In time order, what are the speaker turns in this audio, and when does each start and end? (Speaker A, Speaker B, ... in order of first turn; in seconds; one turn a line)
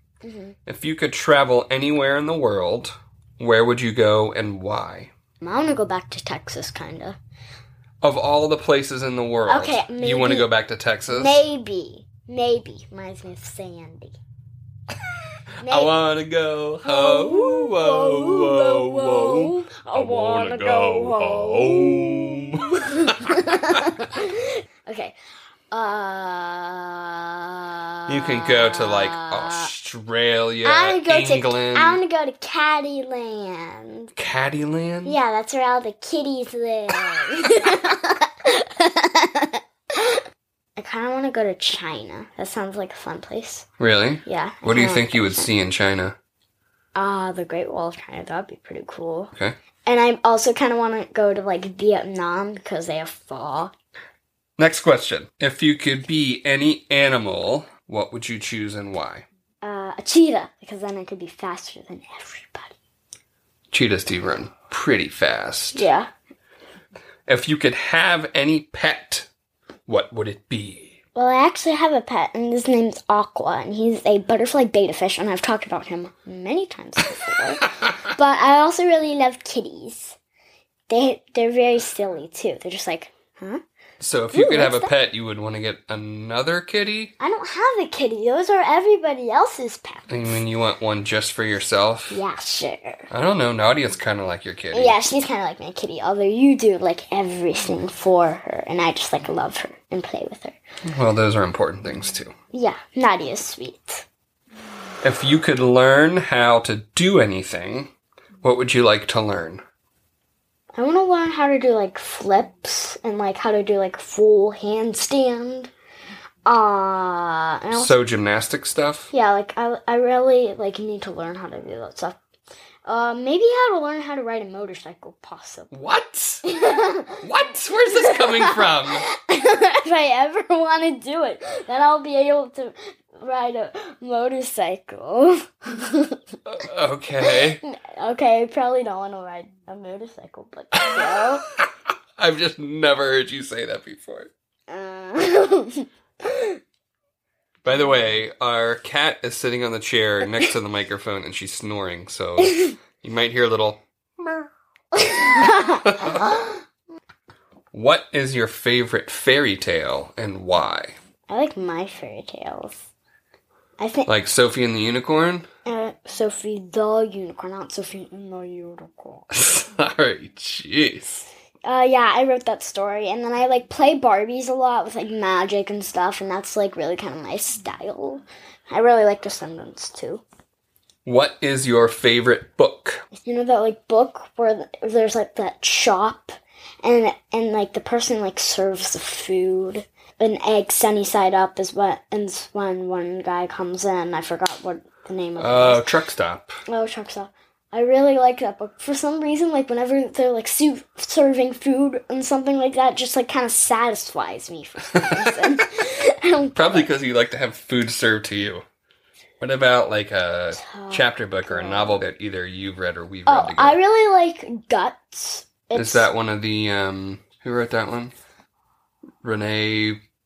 Speaker A: 0.2-0.6
Speaker B: 0.7-5.1
Speaker A: 5.4-7.2
Speaker B: 8.0-11.5
Speaker A: 9.5-10.5
Speaker A: 11.1-14.2
Speaker A: 15.6-15.9
Speaker B: 15.7-23.9
Speaker A: 16.8-25.2
Speaker A: 25.7-29.7
Speaker B: 28.1-32.0
Speaker A: 30.6-34.1
Speaker B: 34.2-35.2
Speaker A: 35.0-40.2
Speaker A: 40.8-43.7
Speaker B: 43.8-46.2
Speaker A: 44.2-45.5
Speaker A: 47.0-49.3
Speaker A: 49.9-53.7
Speaker B: 54.6-59.3
Speaker A: 59.6-62.8
Speaker B: 63.7-65.9
Speaker A: 65.7-66.1
Speaker B: 67.3-69.3
Speaker B: 69.9-71.0
Speaker A: 71.2-80.2
Speaker A: 80.9-83.6
Speaker B: 84.0-87.1
Speaker A: 84.3-84.9
Speaker A: 87.2-90.4
Speaker B: 90.1-92.2
Speaker A: 92.1-93.1
Speaker B: 93.1-95.0
Speaker A: 94.7-100.6
Speaker B: 100.8-102.3
Speaker A: 102.5-104.0
Speaker B: 105.0-107.9
Speaker B: 108.4-109.6
Speaker A: 110.8-115.7
Speaker A: 116.5-118.0
Speaker B: 117.7-119.1
Speaker A: 119.1-122.2
Speaker A: 122.9-125.7
Speaker B: 125.7-126.4
Speaker A: 126.5-127.2
Speaker B: 127.2-129.1
Speaker A: 127.8-136.2
Speaker B: 136.5-137.6
Speaker A: 137.2-141.4
Speaker B: 140.8-141.7
Speaker B: 142.2-144.3
Speaker A: 144.7-146.6
Speaker B: 147.6-154.5
Speaker A: 152.4-152.7
Speaker A: 155.0-156.5
Speaker B: 155.8-156.4
Speaker B: 157.7-161.0
Speaker A: 161.3-162.9
Speaker A: 163.8-164.1
Speaker B: 164.1-165.5
Speaker A: 165.7-169.3
Speaker B: 169.3-171.3
Speaker A: 171.7-180.2
Speaker B: 181.1-183.1
Speaker A: 183.1-195.9
Speaker B: 195.4-196.6
Speaker A: 196.7-206.9
Speaker B: 205.0-205.3
Speaker B: 206.6-208.7
Speaker B: 209.4-213.8
Speaker A: 210.6-212.0
Speaker A: 213.3-216.1
Speaker B: 215.7-218.2
Speaker B: 219.2-220.0